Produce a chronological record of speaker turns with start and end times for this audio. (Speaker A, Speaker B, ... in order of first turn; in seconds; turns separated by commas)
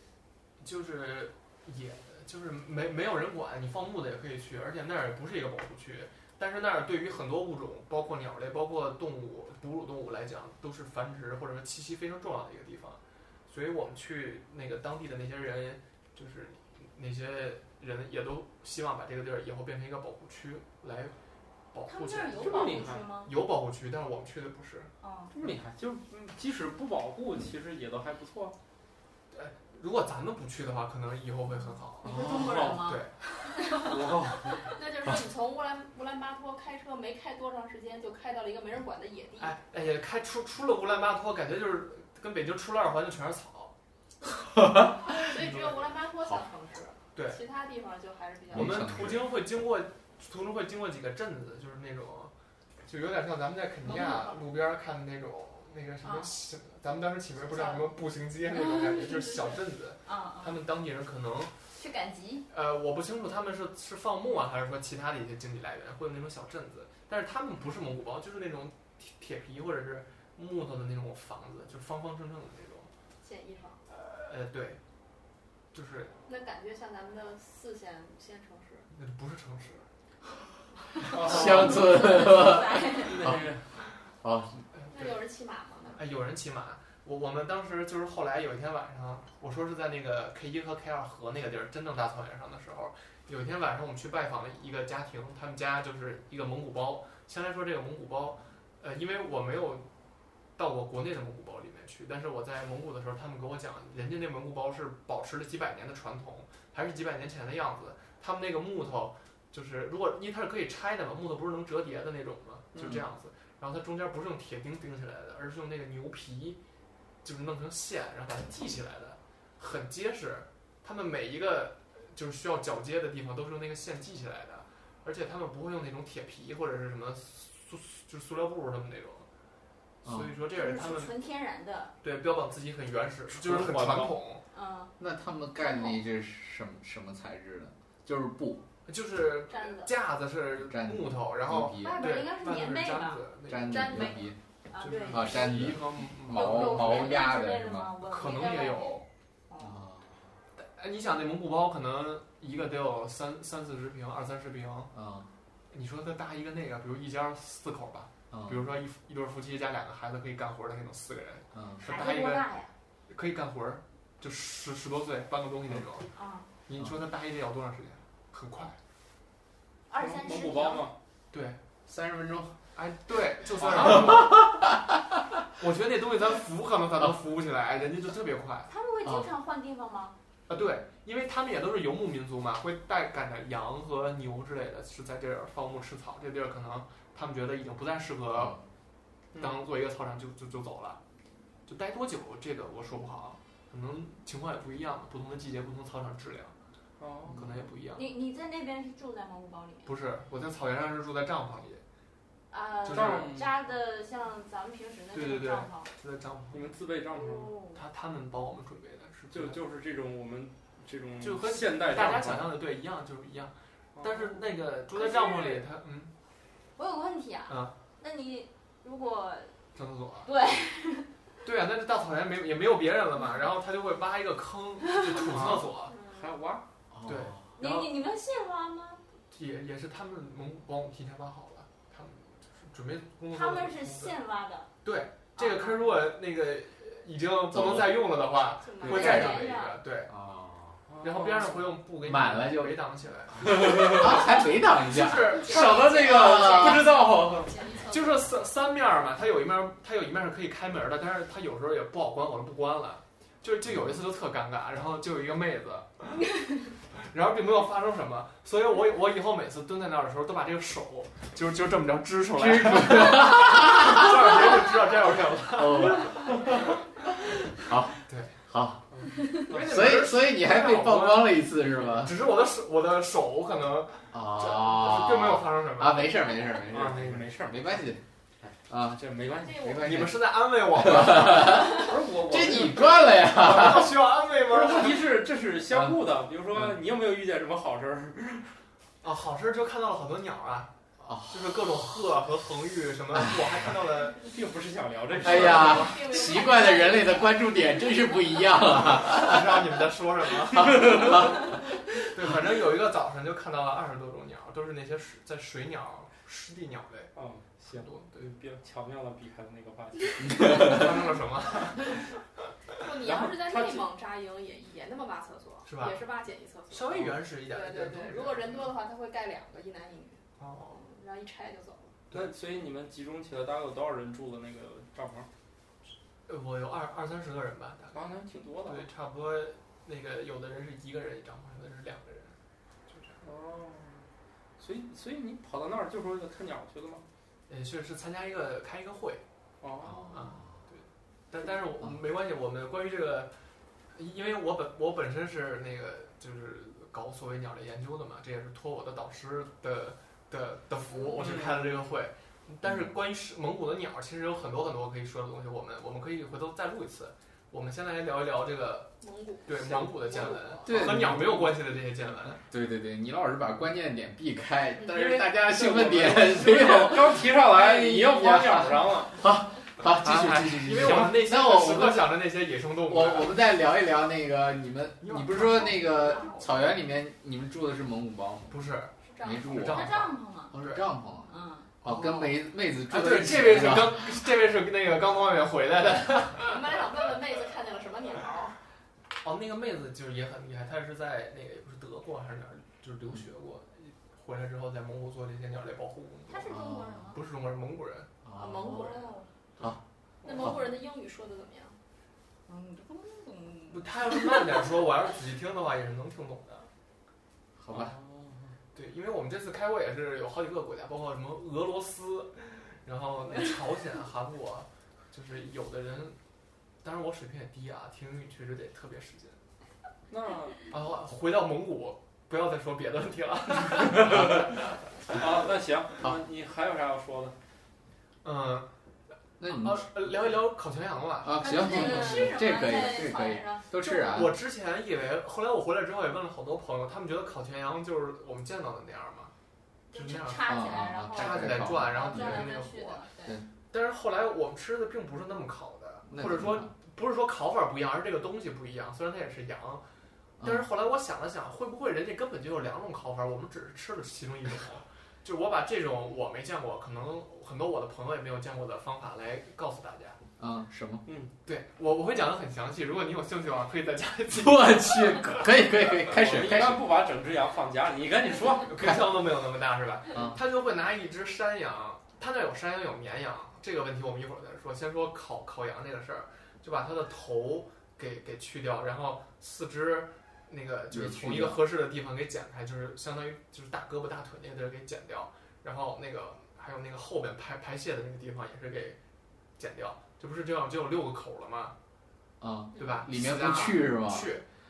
Speaker A: 0.6-21.1, Speaker A: 21.7-24.9, Speaker B: 21.9-23.4, Speaker C: 22.4-23.0, Speaker B: 25.0-25.3, Speaker C: 25.3-28.5, Speaker A: 29.3-33.1, Speaker B: 32.0-34.6, Speaker C: 32.0-32.9, Speaker D: 32.2-32.7, Speaker C: 33.7-34.6, Speaker E: 34.7-39.6, Speaker A: 39.4-43.7, Speaker D: 44.5-45.1, Speaker E: 45.2-49.1, Speaker A: 45.3-45.8, Speaker A: 47.1-47.4, Speaker D: 48.5-49.3, Speaker A: 48.5-52.3, Speaker A: 52.9-61.6, Speaker B: 53.9-54.4, Speaker B: 56.0-56.3, Speaker B: 57.5-57.8, Speaker B: 58.5-60.6, Speaker B: 61.7-62.5, Speaker A: 62.5-72.9, Speaker E: 73.2-73.8, Speaker A: 73.9-74.8, Speaker A: 75.7-76.1, Speaker E: 76.3-78.9, Speaker A: 78.9-79.8, Speaker C: 81.1-82.0, Speaker D: 81.2-83.6, Speaker B: 81.8-83.2, Speaker C: 83.0-83.6, Speaker D: 84.2-84.6, Speaker A: 84.8-85.2, Speaker E: 84.9-86.0, Speaker A: 85.9-99.9, Speaker A: 100.6-116.6, Speaker A: 117.2-129.3, Speaker D: 130.0-130.3, Speaker A: 130.0-131.1, Speaker B: 130.5-131.9, Speaker A: 132.0-134.4, Speaker C: 133.3-134.1, Speaker B: 134.5-134.9, Speaker D: 135.0-138.6, Speaker A: 138.9-144.1, Speaker D: 140.6-142.1, Speaker B: 141.7-149.8, Speaker D: 143.5-144.4, Speaker E: 143.7-144.3, Speaker A: 144.8-147.2, Speaker D: 145.1-147.9, Speaker A: 148.0-149.0, Speaker D: 149.6-150.3, Speaker A: 150.6-154.9, Speaker D: 154.9-155.3, Speaker A: 155.7-162.5, Speaker D: 158.3-158.6, Speaker D: 161.5-161.8, Speaker B: 161.8-162.7, Speaker A: 163.1-166.1, Speaker B: 166.1-166.5, Speaker A: 166.7-168.8, Speaker B: 169.9-170.9, Speaker C: 170.0-170.9, Speaker A: 171.3-171.6, Speaker D: 171.8-172.6, Speaker A: 172.7-174.5, Speaker D: 173.7-174.6, Speaker A: 175.6-178.7, Speaker B: 178.7-180.1, Speaker D: 179.0-179.3, Speaker A: 180.5-188.6, Speaker C: 189.3-189.6, Speaker A: 189.4-191.0, Speaker A: 191.7-196.5, Speaker C: 197.0-197.4, Speaker A: 197.3-198.1, Speaker B: 197.9-199.9, Speaker A: 199.8-201.8, Speaker B: 202.5-205.9, Speaker A: 202.8-203.3, Speaker C: 202.8-203.5, Speaker A: 205.1-206.7, Speaker C: 206.5-207.5, Speaker B: 207.1-207.8, Speaker A: 207.7-209.6, Speaker C: 209.3-212.5, Speaker A: 211.2-216.1, Speaker C: 214.0-214.3, Speaker B: 214.9-215.7, Speaker B: 216.8-219.6, Speaker A: 217.5-217.7, Speaker A: 219.7-220.3, Speaker B: 220.2-221.1, Speaker A: 221.4-225.9, Speaker B: 224.9-226.3, Speaker C: 225.5-226.6, Speaker D: 226.9-227.5, Speaker A: 227.1-228.0, Speaker B: 227.6-229.0, Speaker A: 229.3-234.2, Speaker B: 233.3-234.7, Speaker A: 234.8-240.1, Speaker B: 235.3-236.0, Speaker D: 237.5-238.0, Speaker E: 238.6-239.3, Speaker D: 238.8-239.5, Speaker B: 238.9-239.8, Speaker D: 240.1-240.8, Speaker C: 240.9-241.7, Speaker A: 241.0-246.5, Speaker D: 242.0-246.8, Speaker C: 243.5-244.3, Speaker E: 245.2-248.4, Speaker C: 245.4-247.5, Speaker A: 247.9-256.3, Speaker D: 253.6-254.0, Speaker A: 256.9-266.8, Speaker D: 262.4-264.6, Speaker D: 265.5-266.3, Speaker D: 267.5-268.8, Speaker A: 268.1-268.4, Speaker D: 269.5-272.1, Speaker A: 269.5-276.1, Speaker C: 271.7-272.0, Speaker D: 274.1-278.0, Speaker C: 276.6-277.8, Speaker C: 278.4-279.7, Speaker D: 278.7-284.0, Speaker E: 279.4-280.0, Speaker A: 279.8-285.0, Speaker C: 281.7-282.8, Speaker C: 284.5-288.5, Speaker D: 285.7-286.0, Speaker A: 289.0-290.7, Speaker D: 291.0-291.9, Speaker A: 291.3-294.2, Speaker C: 294.2-295.9, Speaker A: 295.1-295.8, Speaker D: 295.2-299.7, Speaker E: 295.2-297.5, Speaker A: 298.9-307.1, Speaker D: 300.6-301.5, Speaker C: 307.1-310.9, Speaker A: 307.7-308.2, Speaker D: 310.3-310.8, Speaker A: 310.5-312.1, Speaker E: 312.8-322.0, Speaker C: 313.0-313.9, Speaker A: 315.6-316.0, Speaker A: 316.7-318.7, Speaker A: 320.4-320.8, Speaker C: 322.1-325.3, Speaker A: 326.3-328.1, Speaker C: 327.9-328.9, Speaker A: 328.6-332.3, Speaker A: 332.9-333.2, Speaker C: 333.2-334.0, Speaker C: 334.6-337.1, Speaker A: 337.5-339.2, Speaker C: 339.6-340.1, Speaker D: 339.8-340.5, Speaker A: 340.1-343.3, Speaker A: 343.9-358.9, Speaker C: 351.1-351.8, Speaker D: 352.6-352.9, Speaker E: 359.0-360.9, Speaker A: 359.4-362.4, Speaker D: 360.6-361.6, Speaker D: 362.5-372.1, Speaker E: 364.8-365.1, Speaker C: 365.0-369.2, Speaker A: 369.9-373.4, Speaker C: 370.8-371.1, Speaker D: 372.9-378.6, Speaker A: 375.0-376.1, Speaker B: 375.6-376.5, Speaker A: 378.5-380.8, Speaker E: 379.0-379.7, Speaker D: 379.2-380.0, Speaker B: 379.6-380.5, Speaker D: 380.5-384.2, Speaker B: 381.2-381.7, Speaker A: 381.8-386.8, Speaker E: 386.4-388.6, Speaker A: 389.2-396.6, Speaker B: 396.3-397.2, Speaker D: 396.5-397.1, Speaker A: 397.1-398.1, Speaker D: 398.2-399.0, Speaker E: 398.3-399.2, Speaker B: 399.0-399.3, Speaker C: 400.2-400.6, Speaker E: 400.2-401.8, Speaker D: 400.4-400.7, Speaker B: 402.5-404.7, Speaker A: 403.7-406.7, Speaker D: 407.6-407.9, Speaker C: 407.7-408.5, Speaker A: 408.7-416.2, Speaker A: 416.8-419.4, Speaker C: 420.1-420.6, Speaker A: 420.7-424.5, Speaker C: 425.1-427.3, Speaker A: 428.2-428.7, Speaker D: 429.4-430.3, Speaker A: 429.5-432.2, Speaker D: 431.2-434.3, Speaker B: 431.4-434.2, Speaker A: 433.8-439.3, Speaker B: 439.9-443.4, Speaker A: 439.9-443.0, Speaker D: 440.4-442.5, Speaker A: 443.7-449.8, Speaker D: 446.1-446.7, Speaker D: 450.4-450.6, Speaker A: 450.4-460.2, Speaker D: 460.4-461.1, Speaker C: 461.1-461.3, Speaker A: 461.4-465.5, Speaker D: 464.3-466.9, Speaker C: 465.9-468.8, Speaker A: 468.6-489.0, Speaker D: 470.1-470.4, Speaker D: 480.9-481.6, Speaker A: 489.6-491.7, Speaker D: 492.4-494.3, Speaker A: 492.8-494.4